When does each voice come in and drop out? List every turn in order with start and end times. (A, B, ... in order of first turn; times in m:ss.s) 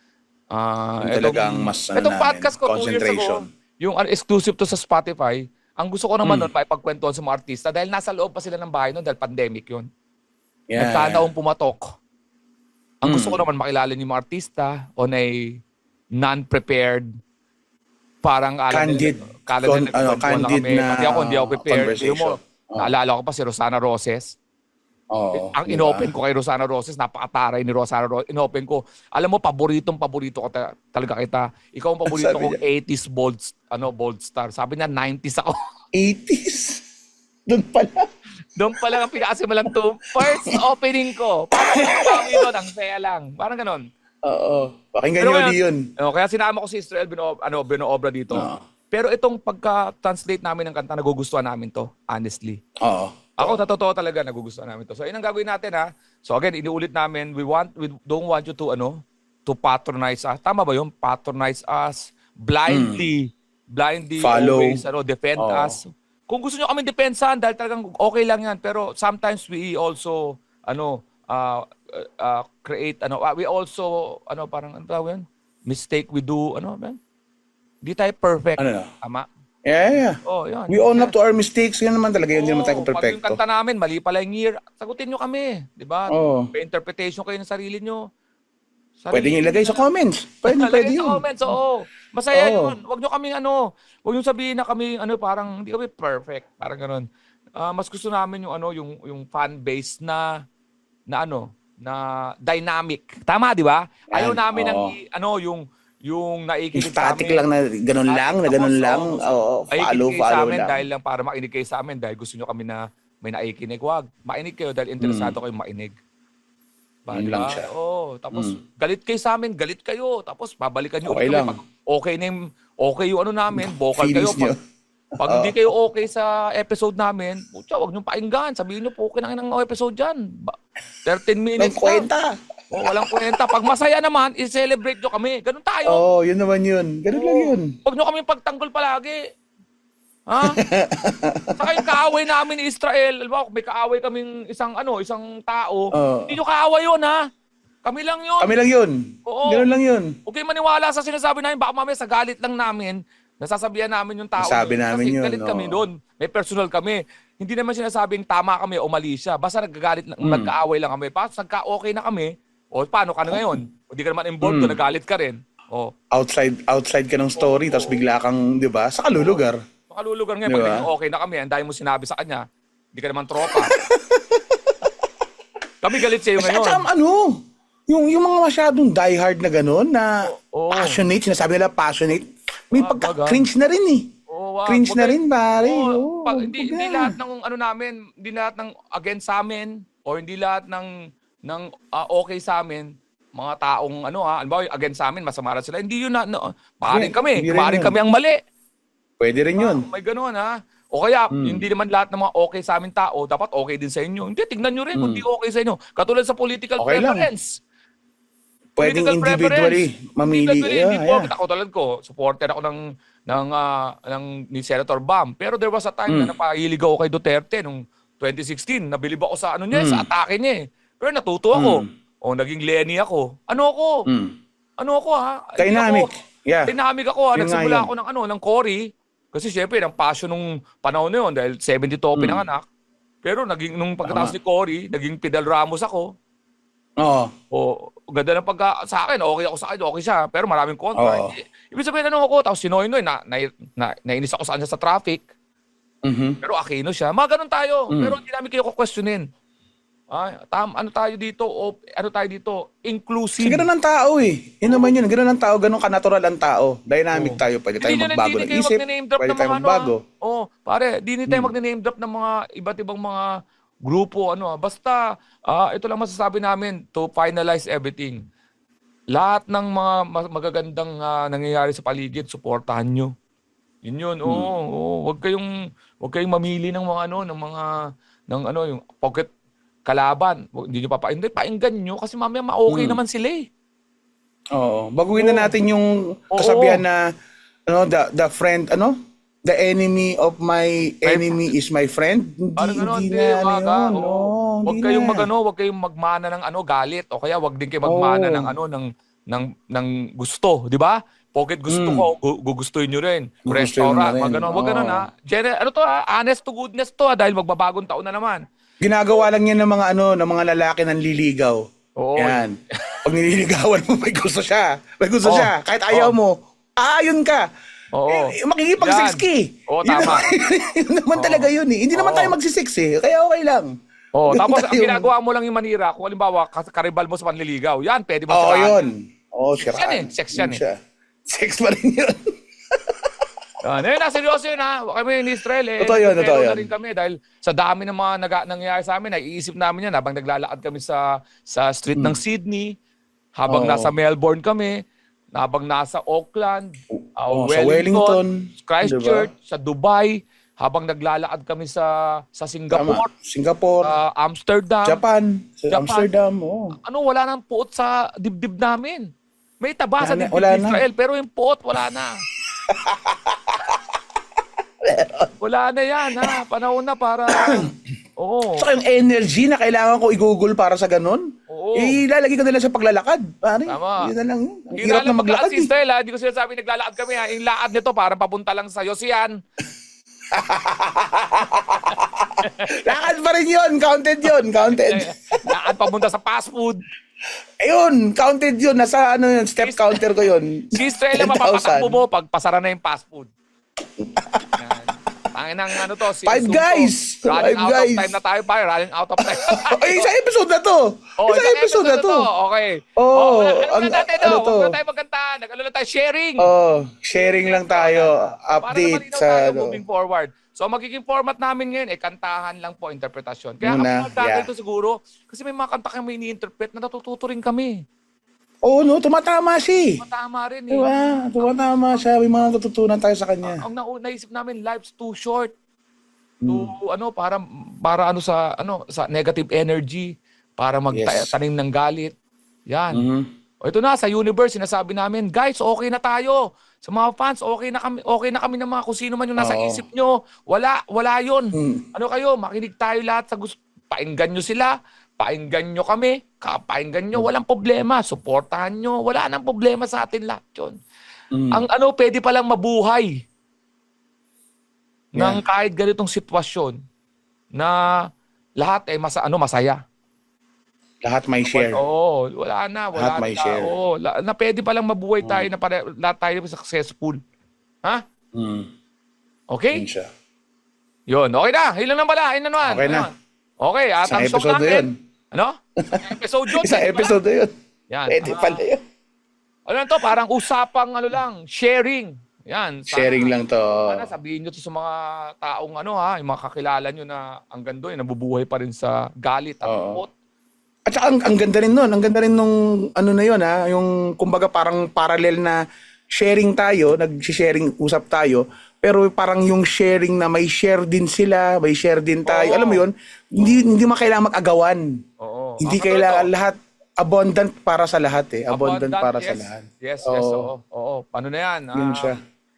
0:00.5-0:09.9 A
0:01.0-0:03.4 B
0:06.2-0:06.5 B
0:10.7-0:11.2 B
0:10.8-0:11.9 A
0:13.0-0:15.6 A
0:13.0-0:13.4 B
0:16.2-0:17.1 A
0:18.2-0:24.3 A
0:18.7-0:22.9 B
0:25.1-0:26.1 B
0:25.3-0:35.6 A
0:32.1-0:32.6 B
0:35.9-0:36.8 B
0:37.5-0:38.1 B
0:38.6-0:43.8 A
0:40.2-0:40.6 B
0:41.5-0:42.5 B
0:44.2-0:45.8 B
0:45.2-0:52.6 A
0:48.3-0:48.6 B
0:52.8-0:53.6 B
0:53.4-1:17.0 A
1:02.7-1:03.0 B
1:04.2-1:04.8 B
1:05.4-1:05.8 B
1:17.8-1:19.3 A
1:18.6-1:18.9 B
1:19.6-1:23.4 B
1:20.2-1:21.1 A
1:22.3-1:28.0 A
1:26.1-1:26.5 B
1:29.0-1:29.8 A
1:29.1-1:31.2 B
1:30.5-1:37.0 A
1:32.3-1:32.8 B
1:37.6-1:40.3 A
1:41.1-1:47.4 A
1:44.1-1:44.9 B
1:46.7-1:50.8 B
1:48.1-1:55.9 A
1:55.0-1:55.3 B
1:57.1-2:04.5 A
1:57.1-1:57.7 B
1:58.3-1:58.6 B
2:01.0-2:01.6 B
2:03.5-2:04.6 B
2:05.2-2:05.6 B
2:05.2-2:12.1 A
2:11.6-2:13.4 B
2:12.7-2:16.0 A
2:15.8-2:17.7 B
2:17.1-2:19.2 A
2:20.3-2:20.6 A
2:20.4-2:22.1 B
2:21.6-2:27.2 A
2:25.9-2:26.3 B
2:27.8-2:28.5 A
2:28.4-2:30.1 B
2:29.3-2:29.7 A
2:30.2-2:45.9 A
2:34.4-2:35.8 B
2:40.2-2:40.5 B
2:43.3-2:43.6 B
2:44.4-2:44.8 B
2:46.1-2:49.6 B
2:47.4-2:48.0 A
2:49.1-2:53.7 A
2:50.5-2:50.9 B
2:53.4-2:54.8 B
2:55.8-2:56.8 A
2:56.4-3:04.1 B
3:00.2-3:01.0 A
3:02.7-3:03.4 A
3:04.3-3:10.9 A
3:04.6-3:07.2 B
3:11.5-3:18.4 A
3:16.9-3:18.0 B
3:19.2-3:19.8 B
3:19.6-3:27.6 A
3:21.3-3:21.6 B
3:25.0-3:25.2 B
3:26.8-3:27.3 B
3:28.8-3:31.3 B
3:28.8-3:43.9 A
3:36.1-3:36.3 B
3:39.7-3:40.1 B
3:41.5-3:41.9 B
3:44.1-3:44.3 B
3:44.8-3:46.1 A
3:45.6-3:46.7 B
3:46.6-3:52.6 A
3:47.3-3:47.9 B
3:52.2-3:52.4 B
3:53.2-3:56.1 A
3:54.1-3:54.3 B
3:57.0-3:57.3 B
3:57.5-4:05.2 A
4:01.0-4:01.3 B
4:06.0-4:06.4 B
4:06.4-4:09.2 A
4:07.9-4:08.2 B
4:10.1-4:13.7 A
4:13.4-4:20.0 B
4:14.6-4:15.0 A
4:17.1-4:23.2 A
4:23.8-4:28.2 A
4:29.1-4:33.1 A
4:33.8-4:35.5 A
4:36.0-4:37.7 A
4:38.3-4:39.3 A
4:39.9-4:43.4 A
4:42.7-4:43.0 B
4:44.5-4:47.0 B
4:45.2-4:45.5 A
4:46.3-4:46.8 A
4:47.7-4:55.3 B
4:51.0-4:51.5 A
4:52.6-5:08.4 A
4:57.8-4:58.5 B
5:01.7-5:02.1 B
5:03.5-5:05.1 B
5:08.8-5:11.6 B
5:12.0-5:13.0 A
5:12.2-5:17.4 B
5:15.2-5:16.1 A
5:17.9-5:20.3 A
5:18.1-5:23.7 B
5:21.1-5:22.3 A
5:24.1-5:28.9 A
5:24.3-5:25.1 B
5:28.3-5:32.2 B
5:29.6-5:30.6 A
5:32.7-5:33.1 B
5:33.6-5:42.7 A
5:35.8-5:36.7 B
5:43.4-5:44.8 A
5:43.5-5:43.9 B
5:45.4-5:53.1 A
5:46.9-5:49.3 B
5:52.7-5:53.9 B
5:53.8-5:55.0 A
5:54.8-5:56.7 B
5:55.7-5:56.1 A
5:56.8-5:59.1 A
5:59.6-6:02.2 A
6:00.0-6:00.8 B
6:02.6-6:03.8 B
6:04.8-6:05.3 B
6:05.4-6:08.7 A
6:07.3-6:07.7 B
6:08.6-6:15.7 B
6:11.5-6:12.0 A
6:13.7-6:14.1 A
6:14.7-6:19.4 A
6:20.3-6:25.4 B
6:22.4-6:23.1 A
6:24.6-6:26.8 A
6:27.6-6:32.0 B
6:29.6-6:30.0 A
6:30.7-6:33.3 A
6:34.0-6:34.6 B
6:34.6-6:40.1 A
6:36.2-6:38.1 B
6:39.2-6:42.3 B
6:41.2-6:46.5 A
6:43.0-6:44.8 B
6:46.4-6:49.8 B
6:47.2-6:57.8 A
6:53.6-6:54.5 B
6:58.6-7:00.0 B
7:00.0-7:01.5 A
7:00.7-7:03.6 B
7:03.4-7:05.5 A
7:06.4-7:06.7 B
7:06.5-7:12.1 A
7:10.9-7:11.3 B
7:12.7-7:13.0 A
7:12.9-7:13.3 B
7:13.6-7:30.7 A
7:19.4-7:19.8 B
7:21.5-7:21.8 B
7:31.3-7:31.6 B
7:31.5-7:33.1 A
7:35.1-7:36.8 A
7:38.6-7:39.8 A
7:41.0-7:41.8 B
7:41.5-7:47.2 A
7:43.0-7:43.7 B
7:45.2-7:45.5 B
7:48.3-7:48.7 B
7:49.5-7:49.8 A
7:49.7-7:50.1 B
7:51.1-7:57.2 A
7:52.6-7:53.1 B
7:54.0-7:54.9 B
7:55.8-7:57.5 B
7:57.9-7:58.6 A
7:58.1-7:58.8 B
7:59.7-8:03.3 A
8:02.9-8:04.1 B
8:03.8-8:10.1 A
8:09.6-8:10.0 B
8:10.8-8:15.6 B
8:16.1-8:24.8 B
8:22.2-8:22.8 A
8:25.2-8:26.3 A
8:25.6-8:30.5 B
8:28.5-8:32.2 A
8:31.7-8:32.2 B